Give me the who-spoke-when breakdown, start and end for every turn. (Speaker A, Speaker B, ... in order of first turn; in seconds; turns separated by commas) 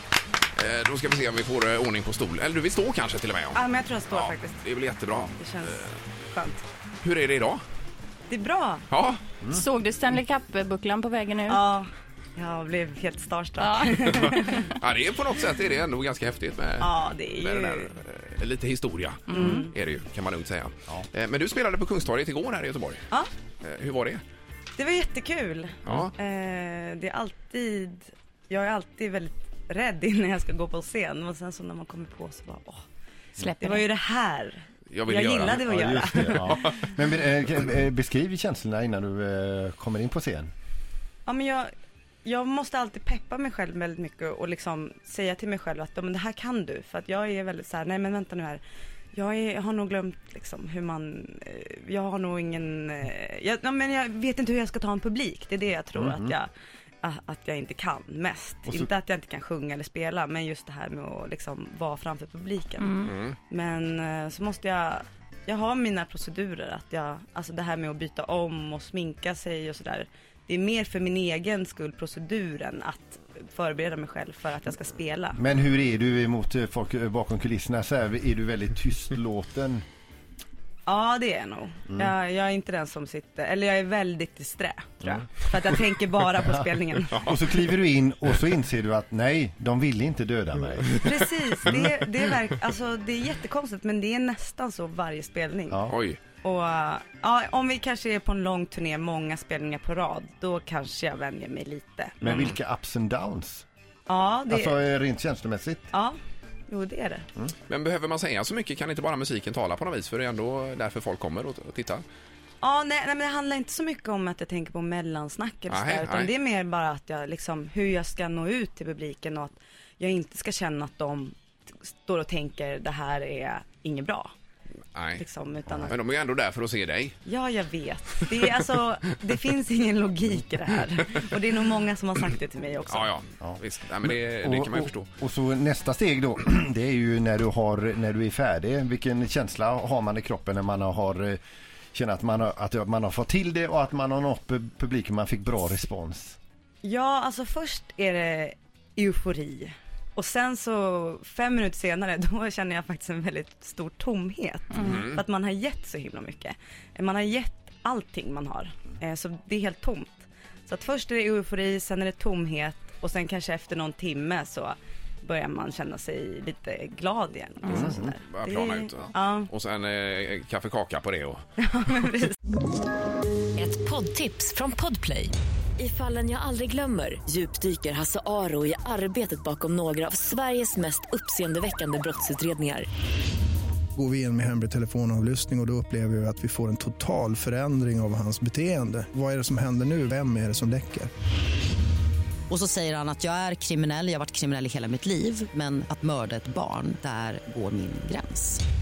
Speaker A: 0.6-5.9, Speaker B: 3.5-4.6, Speaker B: 5.4-6.6, Speaker A: 7.0-7.6, Speaker B: 8.3-8.8, Speaker A: 8.9-9.2, Speaker C: 9.5-11.6, Speaker B: 11.5-14.7, Speaker C: 13.6-14.7, Speaker A: 14.1-23.0, Speaker B: 16.8-17.9, Speaker C: 19.3-19.7, Speaker B: 19.3-19.7, Speaker A: 23.6-24.2, Speaker B: 24.8-32.8, Speaker A: 25.9-26.1, Speaker C: 33.4-33.9, Speaker B: 33.6-36.8, Speaker A: 34.9-36.9, Speaker D: 35.5-40.5, Speaker B: 41.3-41.7, Speaker B: 42.2-48.6, Speaker B: 49.1-56.5, Speaker D: 56.0-56.3, Speaker B: 57.0-75.4, Speaker C: 62.8-63.1, Speaker A: 63.0-63.4, Speaker D: 75.4-79.8, Speaker B: 80.9-87.3, Speaker D: 87.2-91.0, Speaker B: 91.0-95.8, Speaker D: 95.7-96.0, Speaker A: 95.9-96.2, Speaker B: 96.4-102.4, Speaker D: 102.2-103.7, Speaker B: 104.1-104.8, Speaker D: 104.5-105.8, Speaker B: 106.7-107.3, Speaker A: 107.7-112.0, Speaker B: 112.6-121.3, Speaker A: 115.7-116.3, Speaker B: 121.9-124.3, Speaker A: 125.0-125.2, Speaker B: 125.2-126.0, Speaker A: 125.9-127.2, Speaker B: 127.3-133.1, Speaker A: 132.9-135.1, Speaker D: 133.4-141.4, Speaker D: 141.9-146.4, Speaker B: 146.8-169.5, Speaker A: 154.8-155.2, Speaker A: 167.6-171.4, Speaker D: 167.8-168.1, Speaker B: 171.6-172.3, Speaker E: 173.6-182.9, Speaker F: 183.9-191.1, Speaker G: 192.5-198.6